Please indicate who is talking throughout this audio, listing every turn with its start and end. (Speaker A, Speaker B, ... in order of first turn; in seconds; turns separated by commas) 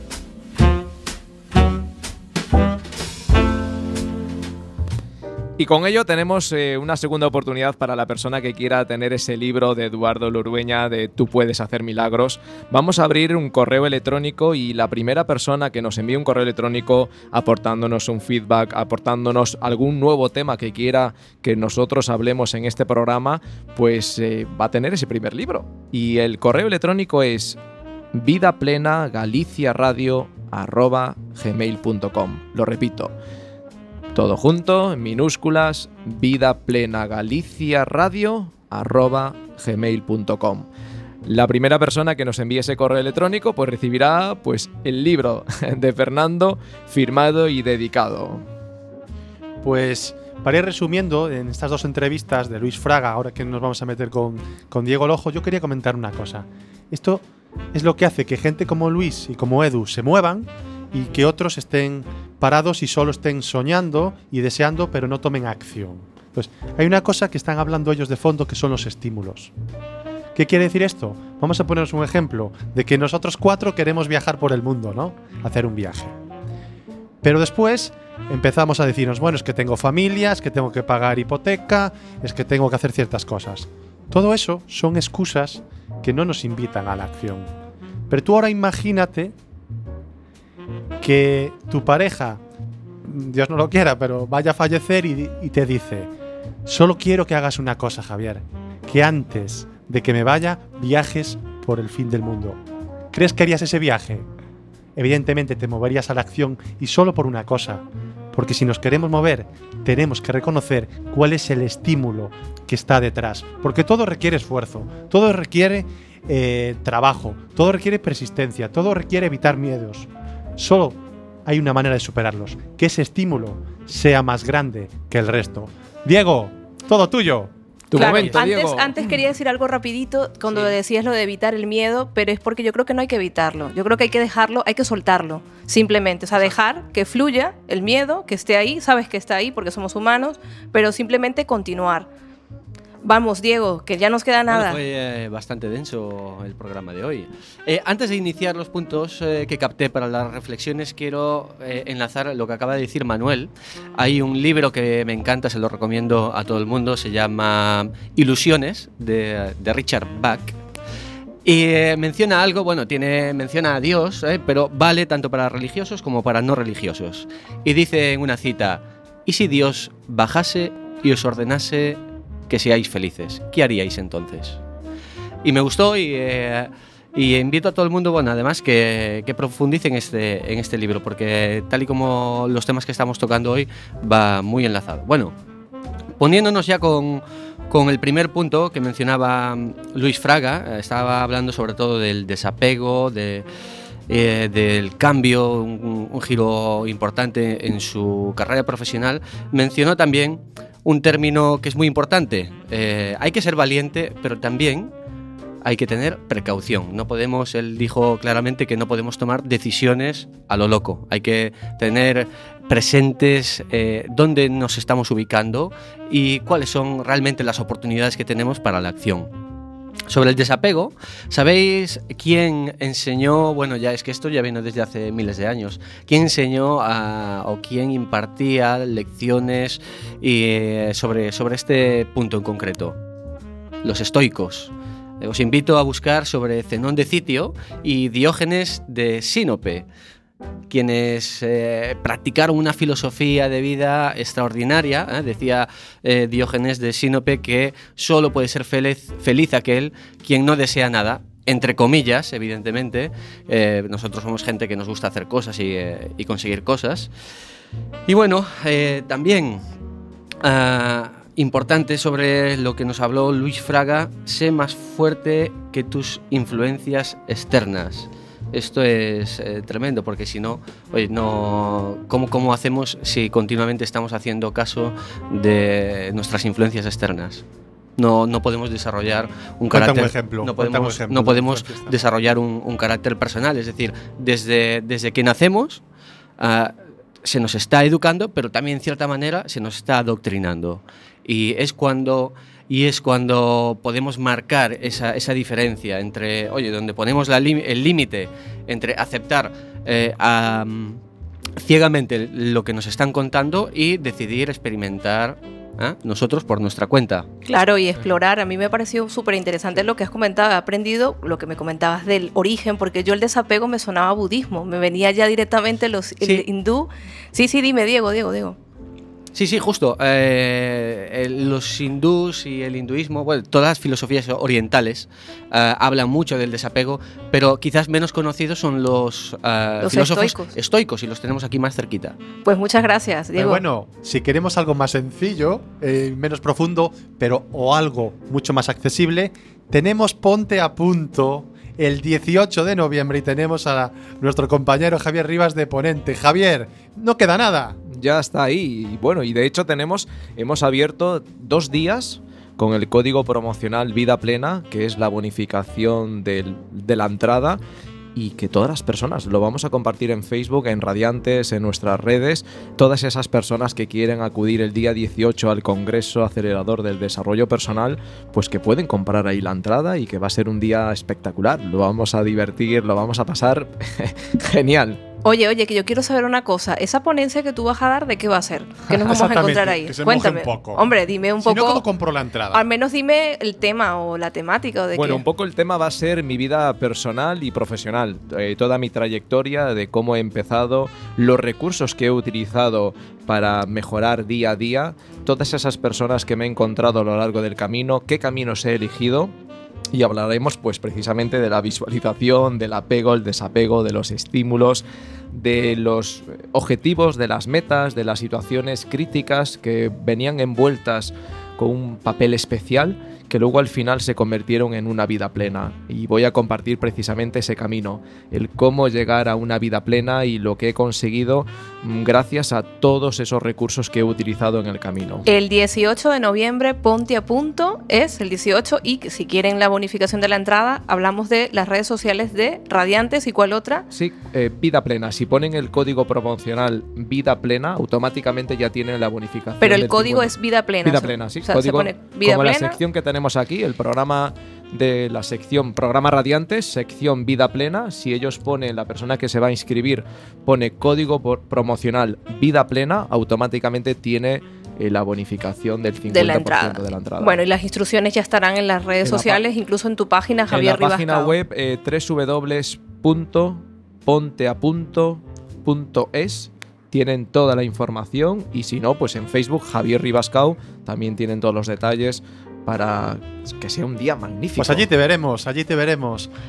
Speaker A: 5.6-27.6, Speaker A: 28.1-33.1, Speaker A: 34.1-40.7, Speaker A: 41.3-48.5, Speaker B: 49.6-69.5, Speaker B: 70.3-76.2, Speaker B: 77.2-87.5, Speaker B: 88.1-89.3, Speaker B: 91.0-92.4, Speaker B: 93.0-96.1, Speaker B: 96.7-102.6, Speaker B: 103.1-104.3, Speaker B: 105.0-127.5, Speaker A: 127.9-128.9, Speaker C: 128.0-142.1, Speaker C: 143.0-144.8, Speaker D: 144.5-160.6, Speaker D: 161.4-174.6, Speaker D: 175.4-185.3, Speaker D: 186.2-193.5, Speaker D: 194.1-204.9, Speaker D: 205.6-219.3, Speaker D: 220.1-233.0, Speaker D: 233.8-239.9, Speaker D: 240.7-257.1, Speaker D: 258.1-259.6, Speaker D: 260.4-277.4, Speaker D: 278.0-285.8, Speaker B: 279.7-282.0, Speaker D: 286.4-301.0, Speaker D: 301.6-307.3, Speaker C: 307.5-318.6, Speaker D: 319.4-332.2, Speaker C: 329.8-330.5, Speaker C: 332.4-333.6, Speaker B: 333.4-347.8, Speaker A: 347.9-357.6, Speaker A: 358.1-375.0, Speaker C: 375.2-381.8, Speaker B: 378.9-380.8, Speaker B: 381.4-382.6, Speaker C: 382.5-385.3, Speaker A: 384.9-399.3, Speaker A: 399.9-425.3, Speaker C: 425.3-433.9, Speaker A: 433.9-457.4, Speaker C: 439.6-442.8, Speaker C: 456.1-461.4, Speaker A: 459.0-459.4, Speaker A: 460.5-474.9, Speaker B: 474.6-476.3